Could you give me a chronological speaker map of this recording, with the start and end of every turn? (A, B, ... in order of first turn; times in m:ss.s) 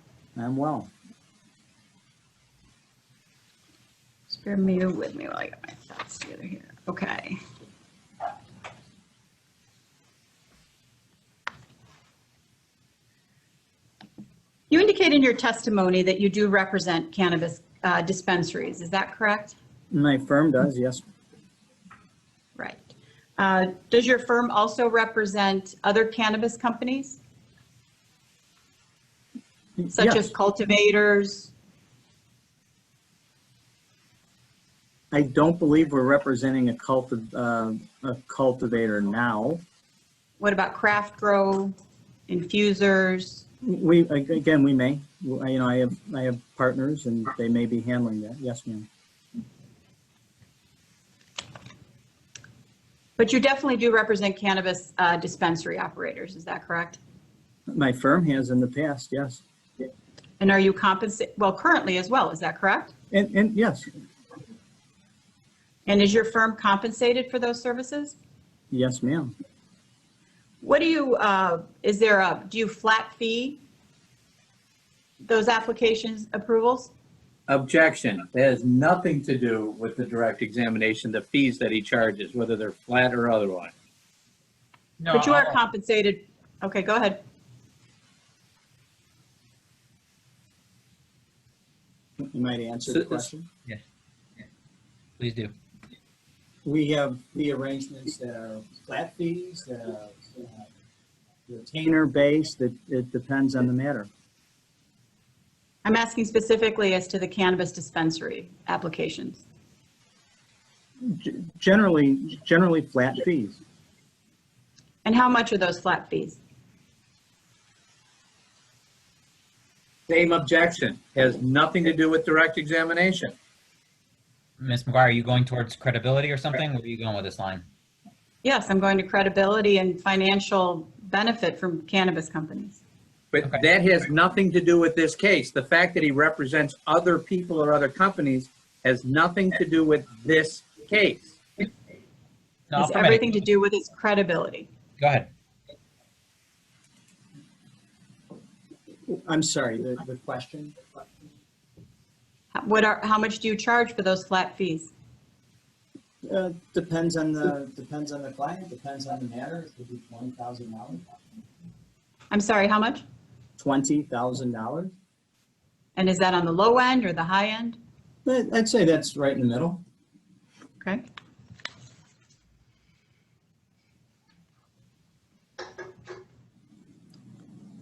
0:00.4-0:00.9 A
0:04.3-0:07.4 B
0:14.7-0:19.6 B
0:19.9-0:21.0 A
0:22.6-0:27.2 B
0:29.9-0:30.3 A
0:29.9-0:31.5 B
0:35.1-0:39.6 A
0:40.4-0:41.7 B
0:42.3-0:43.4 B
0:43.6-0:48.9 A
0:53.2-0:57.0 B
0:57.7-0:59.4 A
1:00.4-1:02.9 B
1:03.1-1:03.9 A
1:05.9-1:08.2 B
1:08.7-1:09.3 A
1:10.6-1:13.6 B
1:15.2-1:16.9 B
1:17.5-1:23.7 C
1:25.0-1:25.6 D
1:25.1-1:27.2 B
1:32.2-1:33.5 A
1:35.2-1:35.5 D
1:36.6-1:40.6 A
1:41.5-1:44.1 A
1:45.8-1:49.4 B
1:51.0-1:53.6 A
1:55.0-1:56.4 B
2:00.1-2:03.3 C
2:04.6-2:07.6 D
2:08.4-2:12.8 B
2:13.3-2:21.4 C
2:22.7-2:23.4 D
2:22.8-2:24.7 B
2:25.0-2:25.3 D
2:29.1-2:30.8 A
2:32.5-2:34.9 B
2:36.2-2:41.0 A
2:42.3-2:43.0 B
2:43.6-2:44.9 A
2:46.0-2:47.8 B
2:48.2-2:49.8 A